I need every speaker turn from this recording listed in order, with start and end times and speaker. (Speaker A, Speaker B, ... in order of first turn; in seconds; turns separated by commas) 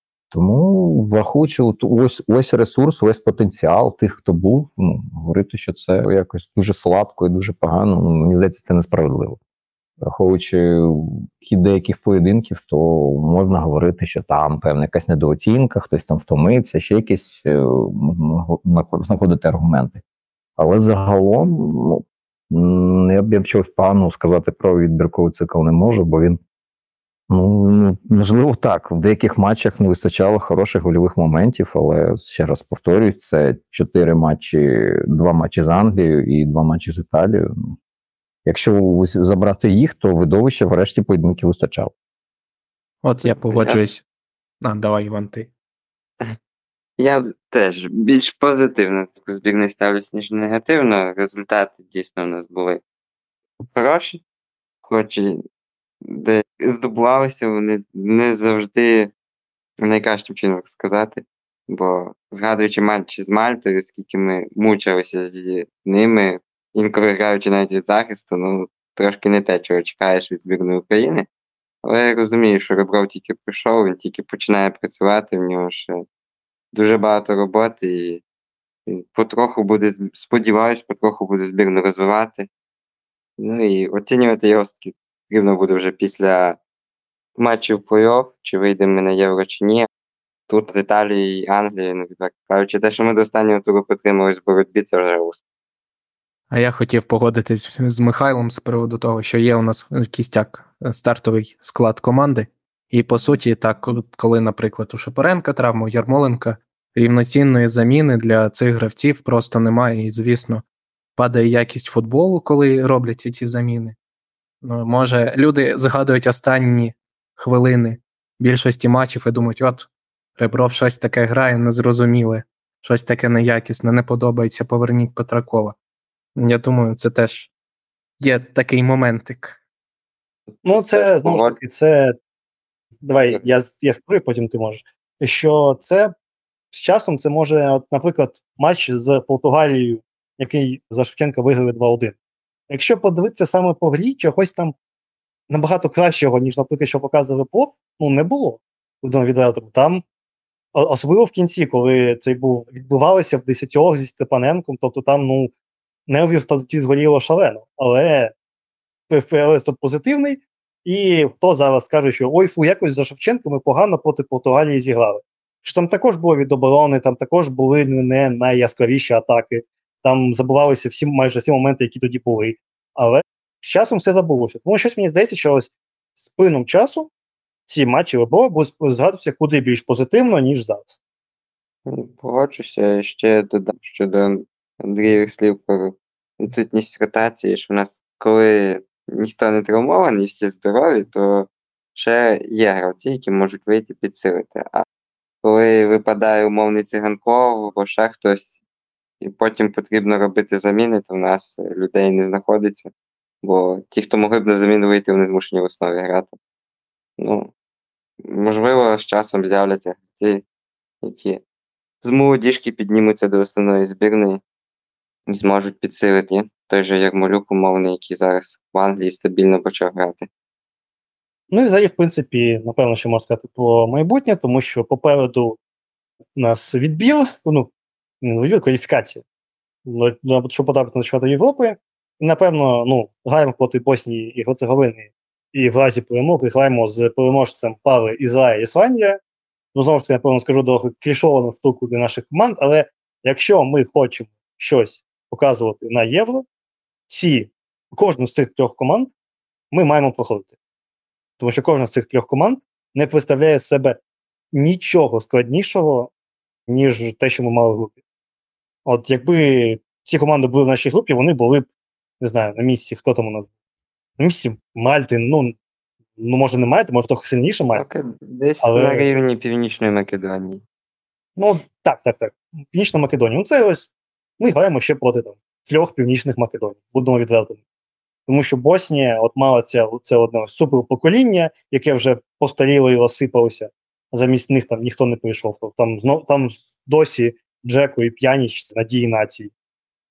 Speaker A: 0.3-9.4, Speaker A: 10.0-20.0, Speaker A: 20.6-26.4, Speaker A: 27.3-37.7, Speaker A: 38.4-41.9, Speaker B: 43.0-44.0, Speaker C: 43.2-43.8, Speaker B: 44.6-45.5, Speaker C: 47.0-52.8, Speaker C: 53.7-54.2, Speaker C: 54.8-55.4, Speaker C: 56.0-59.1, Speaker C: 59.8-71.3, Speaker C: 71.8-76.0, Speaker C: 76.7-78.2, Speaker C: 78.9-82.5, Speaker C: 83.4-86.6, Speaker C: 87.4-89.9, Speaker C: 90.5-95.4, Speaker B: 96.5-110.6, Speaker B: 111.2-114.0, Speaker B: 114.6-125.7, Speaker B: 126.3-127.5, Speaker B: 128.2-129.6, Speaker C: 130.5-131.6, Speaker D: 130.6-132.2, Speaker D: 133.0-136.1, Speaker D: 136.7-142.1, Speaker D: 142.7-144.7, Speaker D: 145.5-150.0, Speaker D: 150.7-155.5, Speaker D: 156.1-158.3, Speaker D: 159.1-177.1, Speaker D: 177.7-181.0, Speaker C: 181.8-194.8, Speaker C: 195.4-198.6, Speaker C: 199.2-202.9, Speaker C: 203.4-206.3, Speaker C: 207.2-207.5, Speaker C: 208.3-210.4, Speaker C: 211.0-211.4, Speaker C: 212.0-214.4, Speaker C: 215.3-220.3, Speaker D: 221.5-225.6, Speaker D: 226.3-227.7, Speaker D: 228.2-229.2, Speaker D: 229.8-239.2, Speaker D: 239.7-246.4, Speaker D: 247.1-249.1, Speaker D: 249.7-250.5, Speaker D: 251.4-254.0, Speaker D: 254.5-256.1, Speaker D: 256.7-257.9, Speaker D: 258.9-261.7, Speaker D: 262.2-263.5, Speaker D: 264.2-265.5, Speaker D: 266.2-267.8, Speaker C: 267.7-270.6, Speaker D: 268.6-269.1, Speaker D: 271.4-277.6, Speaker D: 278.3-289.5